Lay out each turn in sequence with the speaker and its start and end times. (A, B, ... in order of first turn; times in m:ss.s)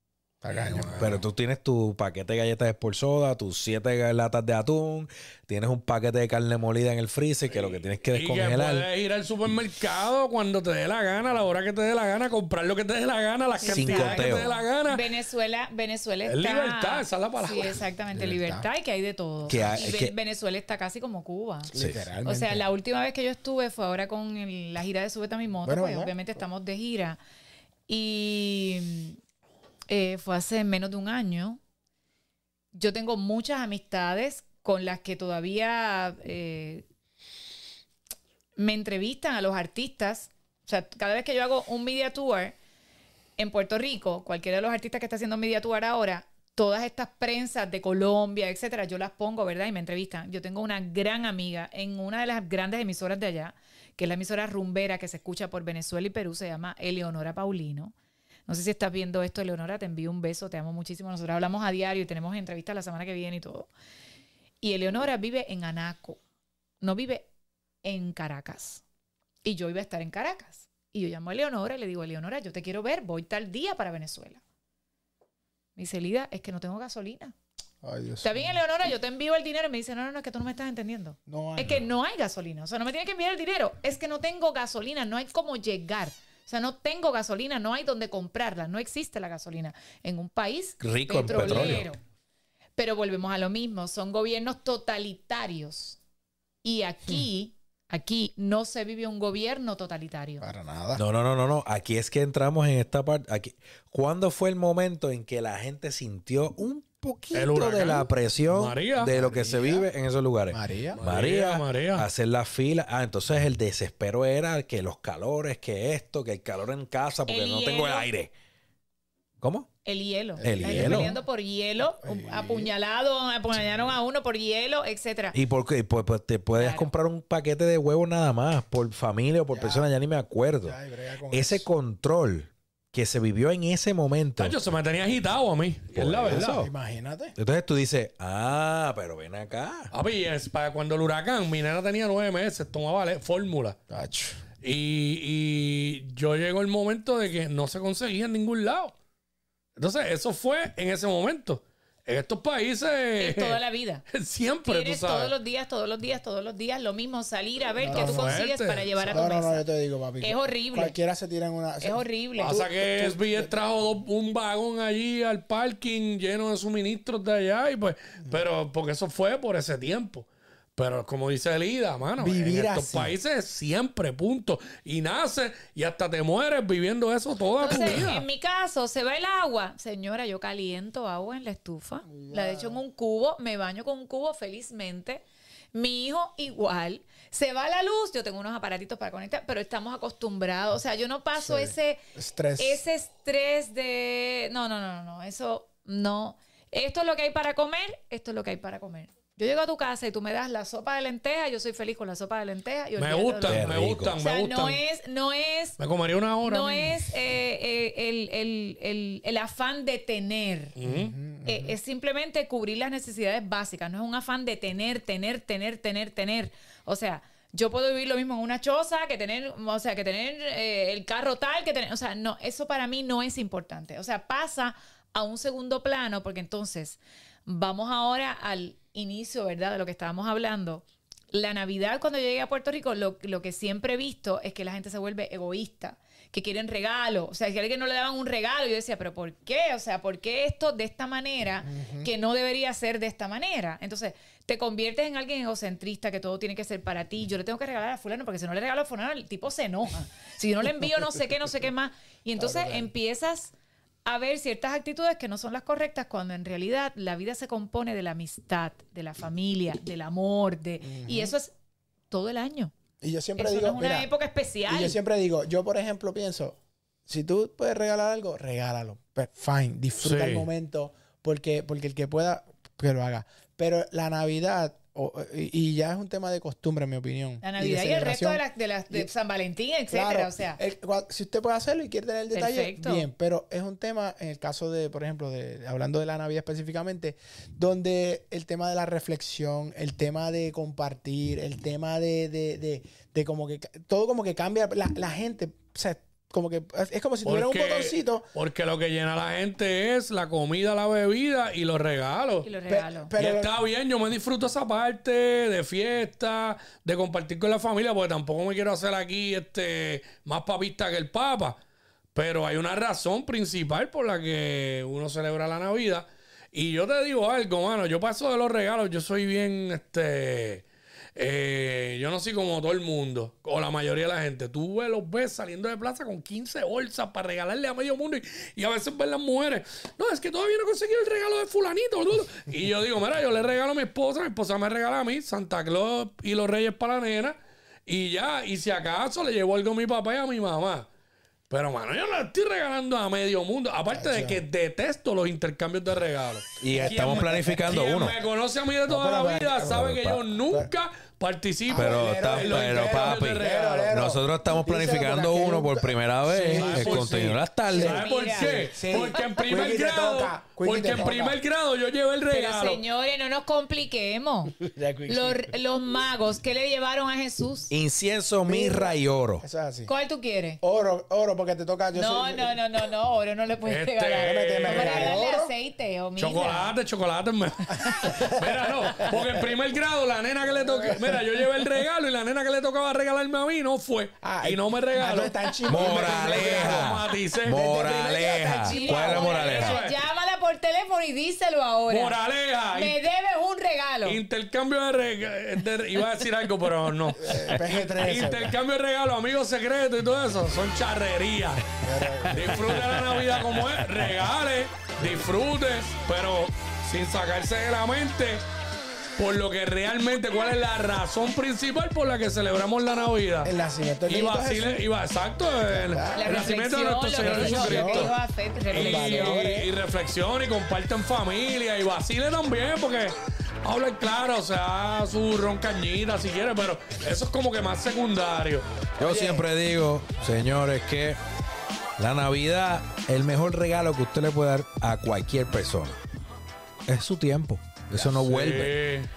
0:00.4-0:01.2 A
0:00.6-0:01.1 B
0:00.9-0:08.9 C
0:07.5-0:15.0 B
0:13.5-0:21.7 D
0:13.6-0:14.5 C
0:16.3-0:17.8 B
0:18.1-0:18.7 A
0:19.5-0:20.1 C
0:19.5-0:19.8 A
0:21.7-0:22.6 A
0:21.7-0:22.0 C
0:22.2-0:27.2 D
0:25.6-0:26.2 A
0:27.9-0:29.2 D
0:29.9-0:31.6 D
0:32.7-0:36.8 D
0:38.6-0:42.5 D
0:43.4-0:57.9 D
0:58.5-1:03.7 D
1:04.6-1:06.2 D
1:06.8-1:07.3 D
1:07.8-1:08.8 D
1:09.4-1:14.4 D
1:15.8-1:17.3 D
1:17.8-1:18.5 A
1:18.2-1:32.0 D
1:21.3-1:21.8 A
1:30.8-1:31.9 C
1:32.8-1:36.0 D
1:36.6-1:40.4 D
1:40.4-1:41.0 A
1:41.0-1:58.3 C
1:47.3-1:49.1 B
1:49.1-1:49.9 A
1:50.5-1:51.0 A
1:50.9-1:52.1 B
1:57.2-1:58.1 D
1:59.4-1:59.7 C
1:59.8-2:05.4 D
2:00.4-2:01.2 A
2:00.4-2:01.1 C
2:02.0-2:02.7 A
2:05.3-2:10.8 C
2:06.6-2:06.9 D
2:09.5-2:09.9 A
2:10.6-2:11.7 A
2:11.3-2:14.6 C
2:14.4-2:16.5 B
2:15.9-2:16.7 C
2:16.3-2:17.4 A
2:17.4-2:19.9 C
2:19.9-2:23.8 B
2:23.9-2:24.4 A
2:24.6-2:28.9 B
2:29.8-2:35.3 B
2:33.2-2:34.0 D
2:34.6-2:39.6 D
2:37.8-2:38.4 A
2:37.9-2:39.1 B
2:39.0-2:43.6 A
2:40.2-2:41.0 D
2:41.8-2:42.6 D
2:42.4-2:58.2 B
2:52.2-2:53.1 A
2:57.6-3:05.2 D
2:57.7-2:58.1 A
3:02.0-3:02.8 A
3:05.7-3:12.0 D
3:11.4-3:12.8 A
3:12.6-3:25.8 D
3:23.0-3:24.8 B
3:23.4-3:24.2 C
3:25.8-3:27.0 B
3:26.4-3:30.7 D
3:30.8-3:31.1 B
3:30.8-3:31.8 A
3:31.4-4:13.5 D
4:01.6-4:02.1 A
4:12.4-4:12.9 A
4:14.0-4:21.5 D
4:20.8-4:21.3 A
4:22.1-4:22.7 D
4:23.0-4:24.1 A
4:23.4-4:25.0 D
4:24.7-4:39.1 A
4:30.0-4:30.5 B
4:37.4-4:40.6 D
4:39.9-4:58.2 A
4:42.3-4:43.0 D
4:57.2-5:02.5 B
5:02.4-5:03.1 D
5:02.7-5:03.5 A
5:03.2-5:11.6 B
5:12.1-5:20.6 B
5:21.2-5:40.9 B
5:41.5-5:53.9 B
5:43.9-5:44.4 A
5:46.6-5:48.2 C
5:46.7-5:47.7 A
5:48.9-5:49.9 A
5:49.7-5:50.2 C
5:51.7-6:01.4 A
5:51.7-5:58.0 C
5:56.4-6:02.8 B
5:57.8-5:58.7 D
6:02.3-6:04.6 D
6:04.6-6:05.5 A
6:05.1-6:07.7 D
6:07.7-6:09.4 C
6:08.4-6:09.9 A
6:09.9-6:10.6 D
6:10.6-6:12.6 A
6:11.9-6:16.7 D
6:13.6-6:15.2 B
6:14.2-6:15.5 A
6:16.2-6:27.6 B
6:17.8-6:19.3 A
6:20.5-6:21.2 A
6:24.2-6:29.4 A
6:25.7-6:29.8 C
6:28.6-6:32.2 D
6:29.3-6:30.0 B
6:31.9-6:33.0 B
6:32.7-6:34.2 D
6:34.0-6:41.6 B
6:37.2-6:38.5 A
6:41.8-6:43.1 A
6:42.2-6:48.4 B
6:49.2-6:53.5 B
6:53.4-6:54.8 A
6:54.1-6:58.2 B
6:55.6-6:56.5 A
6:56.1-6:59.5 D
6:57.2-6:58.1 A
6:58.7-6:59.7 A
6:58.7-7:08.6 B
7:09.0-7:11.2 C
7:09.0-7:09.5 A
7:12.0-7:15.9 C
7:16.9-7:18.8 C
7:17.9-7:18.2 A
7:18.2-7:19.1 B